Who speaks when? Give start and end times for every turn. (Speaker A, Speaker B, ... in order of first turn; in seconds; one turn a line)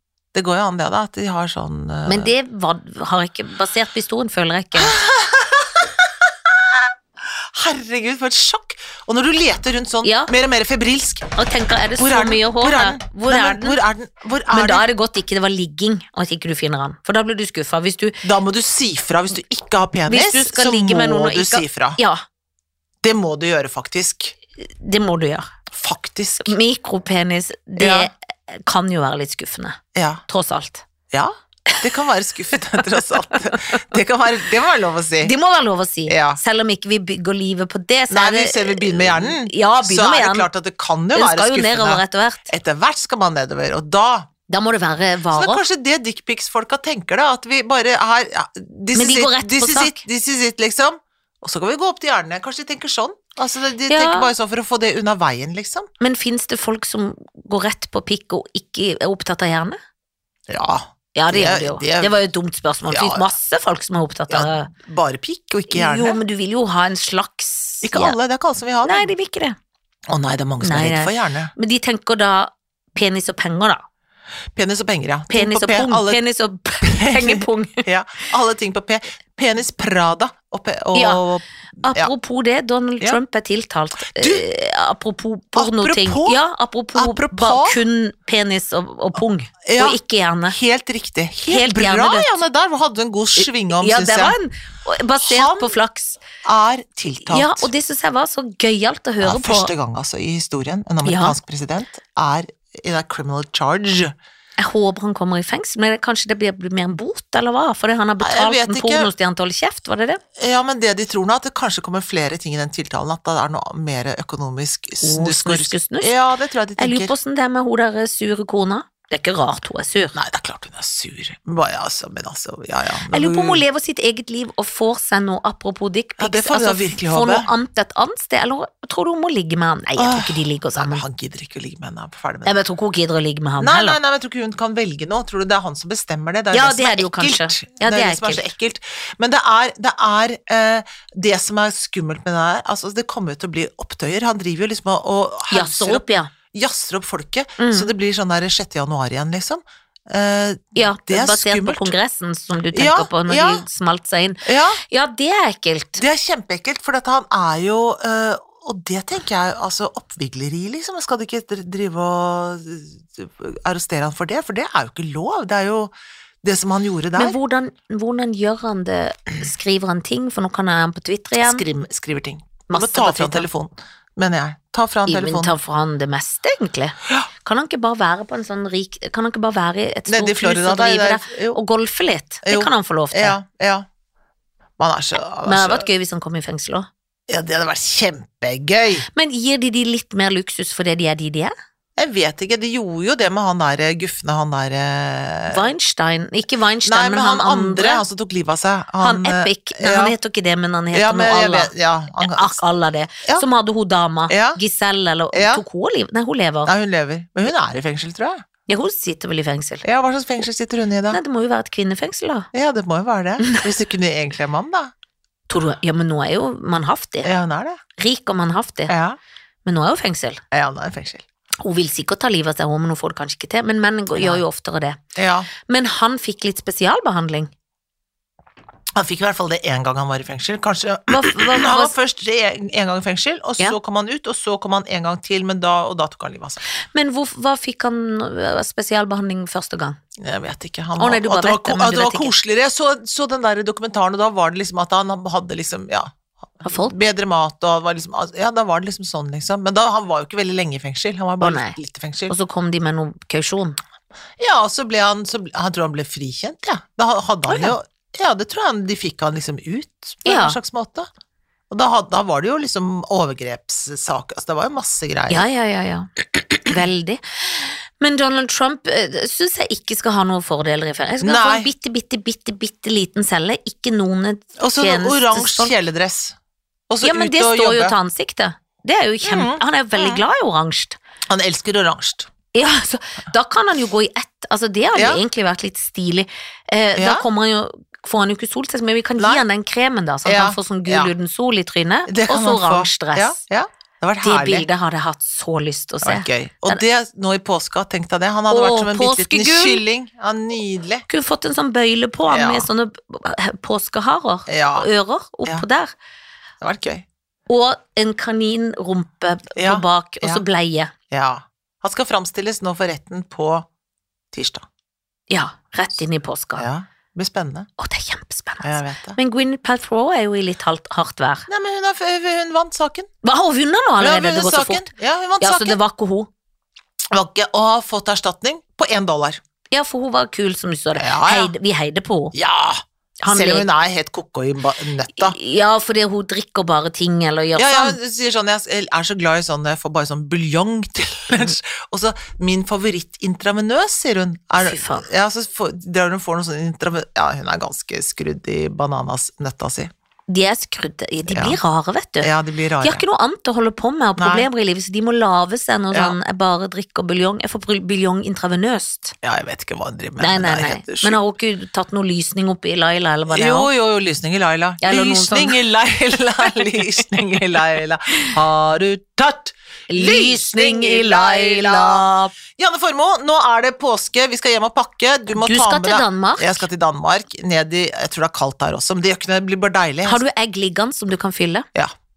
Speaker A: 0.3-2.3
Speaker B: 2.1-5.0
Speaker A: 4.8-11.3
Speaker B: 10.0-10.3
Speaker B: 11.3-13.8
Speaker A: 12.0-14.9
Speaker B: 14.5-18.2
Speaker A: 18.2-22.0
Speaker B: 20.1-22.2
Speaker A: 23.0-24.4
Speaker B: 24.6-25.5
Speaker A: 25.7-26.6
Speaker B: 26.4-30.9
Speaker A: 27.8-28.1
Speaker A: 29.9-30.2
Speaker A: 31.1-35.3
Speaker B: 33.0-33.7
Speaker B: 35.2-40.5
Speaker A: 36.1-36.4
Speaker A: 38.1-44.3
Speaker B: 41.1-42.5
Speaker B: 44.5-45.6
Speaker A: 45.3-55.9
Speaker B: 48.9-50.0
Speaker B: 53.9-54.3
Speaker B: 56.0-59.8
Speaker A: 60.5-62.2
Speaker B: 61.1-64.7
Speaker A: 62.9-63.3
Speaker A: 64.3-66.2
Speaker B: 65.7-68.2
Speaker A: 67.8-69.1
Speaker B: 68.8-69.6
Speaker A: 70.1-71.5
Speaker B: 70.6-73.8
Speaker A: 74.5-76.2
Speaker B: 75.3-77.9
Speaker A: 76.8-82.1
Speaker B: 81.0-81.2
Speaker B: 81.8-90.6
Speaker A: 84.0-84.5
Speaker A: 85.5-86.4
Speaker A: 87.0-87.8
Speaker A: 89.7-94.4
Speaker B: 91.5-92.4
Speaker B: 93.4-96.2
Speaker A: 95.2-95.8
Speaker A: 96.4-97.7
Speaker B: 97.3-99.7
Speaker A: 99.2-104.2
Speaker B: 101.0-101.4
Speaker B: 104.6-110.2
Speaker A: 108.2-109.1
Speaker A: 110.4-117.2
Speaker B: 115.0-116.1
Speaker B: 116.8-120.2
Speaker A: 120.2-123.6
Speaker B: 123.1-131.0
Speaker A: 126.2-127.5
Speaker A: 130.0-132.6
Speaker B: 132.4-134.0
Speaker A: 133.6-151.9
Speaker B: 136.5-138.5
Speaker B: 145.5-146.3
Speaker B: 147.6-147.9
Speaker B: 150.8-156.0
Speaker A: 152.7-153.7
Speaker A: 154.4-154.8
Speaker A: 156.0-167.4
Speaker B: 167.2-171.6
Speaker A: 171.4-175.6
Speaker B: 172.7-173.5
Speaker B: 175.1-183.4
Speaker A: 180.1-181.6
Speaker A: 182.4-183.9
Speaker A: 184.8-185.9
Speaker B: 185.4-186.9
Speaker A: 187.3-189.1
Speaker B: 189.1-191.5
Speaker A: 192.0-195.7
Speaker B: 195.5-198.1
Speaker A: 196.8-200.2
Speaker B: 199.0-206.7
Speaker A: 200.9-202.6
Speaker A: 204.3-204.6
Speaker A: 205.3-205.6
Speaker A: 206.7-208.4
Speaker B: 208.7-209.8
Speaker A: 209.8-211.2
Speaker B: 211.1-212.5
Speaker A: 212.5-214.9
Speaker B: 213.4-213.7
Speaker B: 215.5-217.3
Speaker A: 217.2-217.8
Speaker B: 218.0-218.9
Speaker A: 218.9-219.2
Speaker B: 219.7-220.4
Speaker A: 220.5-221.2
Speaker B: 221.6-225.0
Speaker A: 224.2-224.4
Speaker A: 225.2-225.5
Speaker B: 225.6-227.5
Speaker A: 229.0-236.6
Speaker B: 231.1-231.9
Speaker B: 236.9-240.0
Speaker A: 240.2-252.3
Speaker B: 241.0-242.3
Speaker B: 246.6-246.9
Speaker B: 251.4-251.8
Speaker B: 252.3-253.8
Speaker A: 254.4-261.1
Speaker B: 257.5-257.8
Speaker B: 260.2-260.6
Speaker A: 261.7-265.5
Speaker B: 265.3-266.1
Speaker B: 266.6-275.7
Speaker A: 271.2-271.7
Speaker A: 274.6-276.4
Speaker A: 276.9-278.0
Speaker B: 277.0-281.0
Speaker A: 279.2-280.2
Speaker A: 281.3-282.3
Speaker B: 282.5-293.4
Speaker A: 284.9-285.2
Speaker A: 287.0-287.2
Speaker A: 289.2-289.4
Speaker A: 290.2-291.1
Speaker A: 292.1-294.7
Speaker B: 294.2-296.8
Speaker A: 296.0-301.1
Speaker B: 298.5-299.8
Speaker B: 301.1-305.9
Speaker A: 302.3-302.7
Speaker A: 304.5-304.9
Speaker A: 306.6-307.1
Speaker B: 307.5-310.9
Speaker A: 309.6-310.4
Speaker A: 311.1-313.7
Speaker A: 314.3-314.7
Speaker B: 315.3-316.7
Speaker A: 316.6-317.7
Speaker B: 317.8-321.5
Speaker A: 318.6-319.2
Speaker A: 321.5-323.1
Speaker B: 323.2-326.3
Speaker A: 324.0-325.8
Speaker A: 327.1-329.4
Speaker B: 329.7-332.3
Speaker A: 330.9-331.5
Speaker A: 332.3-335.4
Speaker B: 333.2-333.7
Speaker B: 335.2-338.0
Speaker A: 337.6-349.9
Speaker B: 344.6-345.1
Speaker B: 350.3-352.3
Speaker A: 351.3-351.6
Speaker A: 352.2-353.0
Speaker B: 352.8-359.2
Speaker A: 354.2-354.5
Speaker A: 359.2-361.2
Speaker B: 360.2-363.7
Speaker A: 363.3-372.1
Speaker B: 364.8-365.6
Speaker B: 369.9-372.4
Speaker A: 372.6-380.2
Speaker B: 375.3-376.6
Speaker B: 380.1-381.7